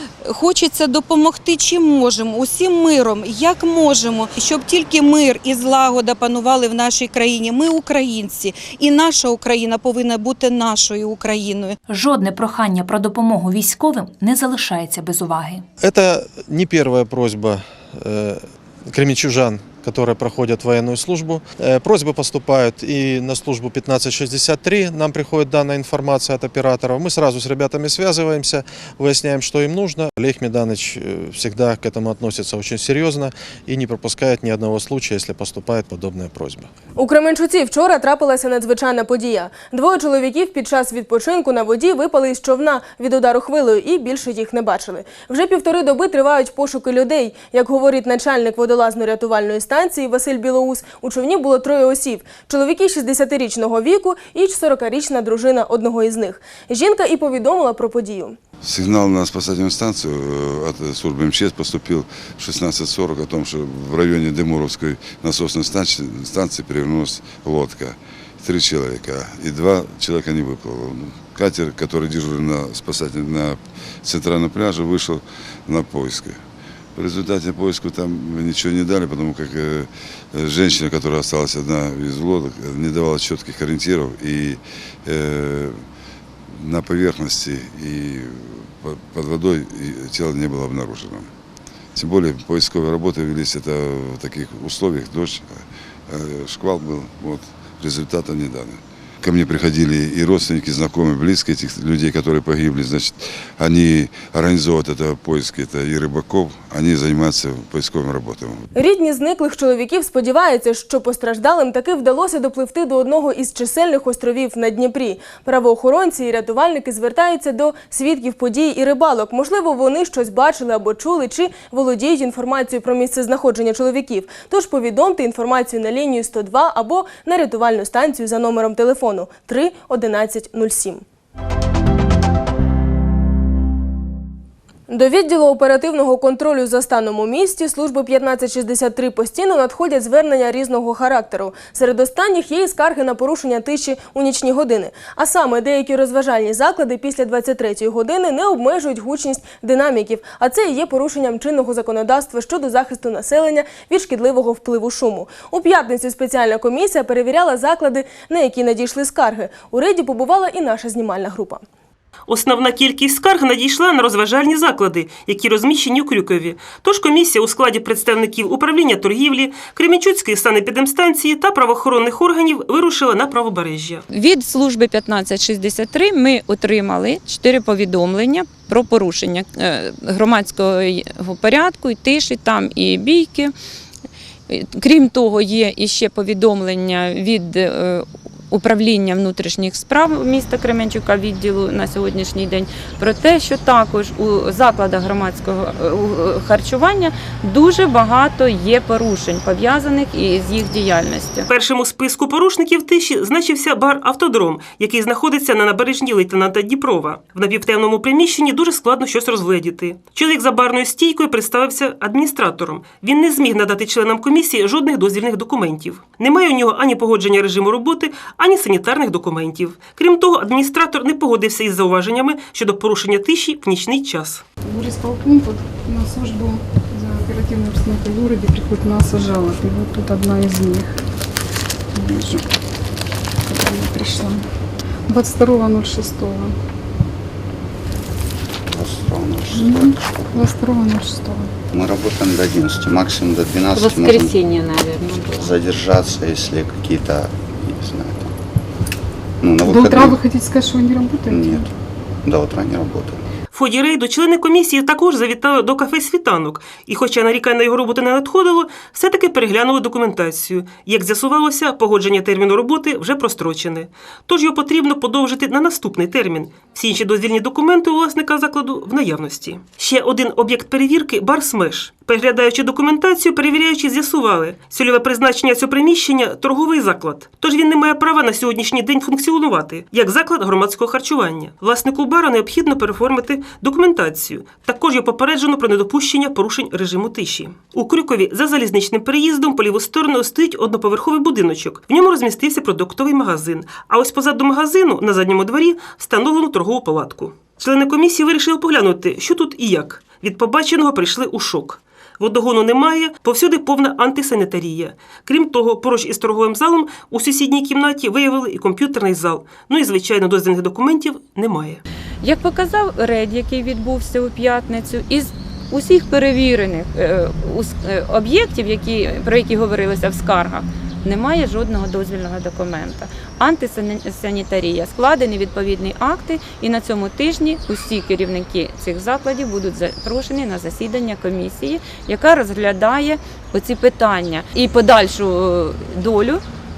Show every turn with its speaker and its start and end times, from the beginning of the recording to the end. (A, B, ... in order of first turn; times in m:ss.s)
0:00.3-0:11.8 A
0:11.9-0:15.6 B
0:15.8-0:36.7 C
0:37.0-0:58.4 D
0:58.6-1:16.4 E
1:17.0-1:25.8 E
1:26.6-1:31.3 E
1:32.0-1:48.6 E
1:48.8-2:11.0 D
2:14.9-2:41.6 D
2:42.3-2:54.0 F
2:54.1-3:03.5 G
3:04.5-3:21.5 G
3:21.5-3:44.4 F
3:47.9-3:50.0 H
3:55.9-3:56.3 H
3:58.7-4:00.0 I
3:59.6-4:00.5 H
4:01.7-4:04.4 I
4:03.8-4:05.1 G
4:05.2-4:08.3 I
4:09.4-4:10.2 I
4:09.7-4:10.2 H
4:11.3-4:11.7 I
4:12.2-4:13.2 I
4:13.5-5:11.8 F
5:12.2-5:36.4 G